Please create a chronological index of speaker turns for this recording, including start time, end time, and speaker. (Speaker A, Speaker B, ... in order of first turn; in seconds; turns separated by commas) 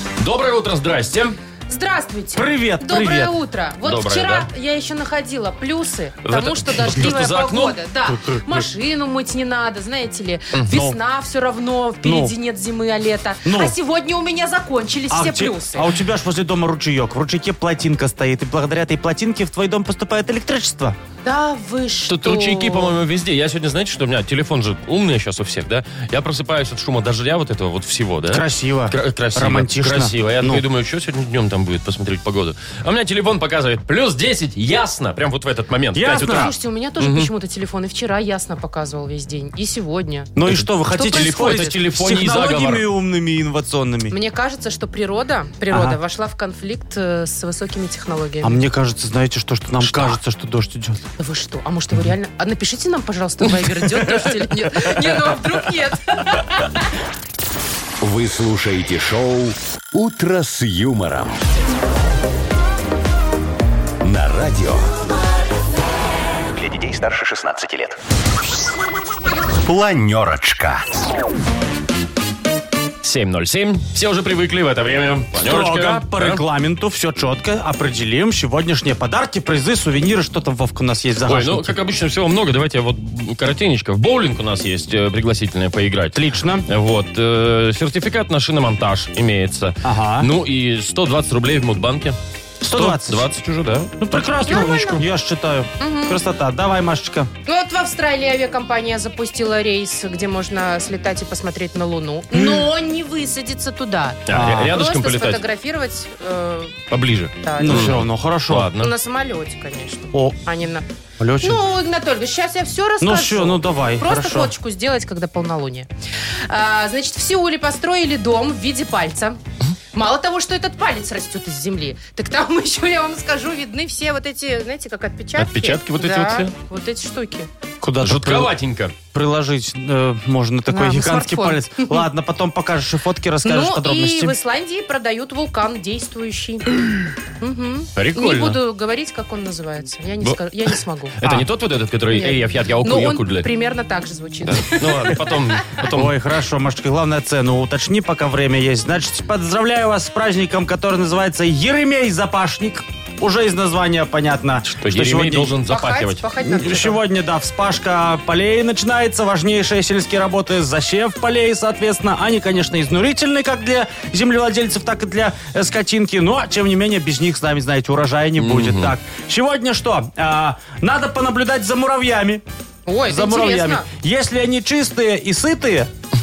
Speaker A: 0.2-1.4, Speaker B: 1.7-15.9, Speaker C: 2.3-3.3, Speaker A: 3.8-4.5, Speaker A: 6.2-7.8, Speaker C: 10.7-11.0, Speaker C: 12.0-12.3, Speaker C: 13.4-13.8, Speaker C: 15.1-21.0, Speaker B: 21.2-22.9, Speaker A: 22.1-37.3, Speaker C: 28.3-30.6, Speaker C: 35.9-36.5, Speaker B: 36.2-40.3, Speaker C: 40.4-44.1, Speaker A: 40.5-42.8, Speaker B: 40.9-41.7, Speaker B: 44.1-48.6, Speaker C: 45.7-46.0, Speaker C: 48.4-51.0, Speaker B: 51.2-56.9, Speaker C: 53.8-55.5, Speaker D: 58.0-61.4, Speaker D: 64.0-64.9, Speaker D: 66.5-68.0, Speaker D: 69.6-70.9, Speaker A: 73.0-76.4, Speaker C: 75.4-81.8, Speaker A: 81.2-92.2, Speaker C: 86.1-86.7, Speaker C: 89.8-90.3, Speaker C: 92.6-93.3, Speaker A: 92.7-95.0, Speaker C: 94.0-97.3, Speaker B: 94.4-95.0, Speaker B: 95.8-96.2, Speaker B: 97.5-106.8, Speaker A: 104.3-105.4, Speaker C: 104.3-104.7, Speaker A: 106.9-108.9, Speaker B: 107.4-107.9, Speaker C: 107.6-108.7, Speaker B: 108.8-110.8, Speaker C: 110.1-110.4, Speaker C: 111.2-111.6, Speaker B: 111.4-115.9, Speaker C: 113.0-114.5, Speaker B: 116.5-119.4, Speaker B: 119.9-127.5, Speaker A: 125.4-126.5, Speaker C: 127.8-128.5, Speaker A: 128.0-128.9, Speaker C: 129.1-134.3, Speaker B: 130.7-132.1, Speaker B: 133.4-136.7, Speaker B: 137.4-141.1, Speaker A: 137.9-138.6, Speaker A: 141.2-143.5, Speaker B: 142.1-145.3, Speaker A: 144.4-146.1, Speaker C: 145.9-155.6, Speaker A: 154.7-156.2, Speaker B: 155.7-157.0, Speaker C: 156.4-172.4, Speaker A: 168.4-168.9, Speaker B: 172.9-173.9, Speaker C: 173.1-175.9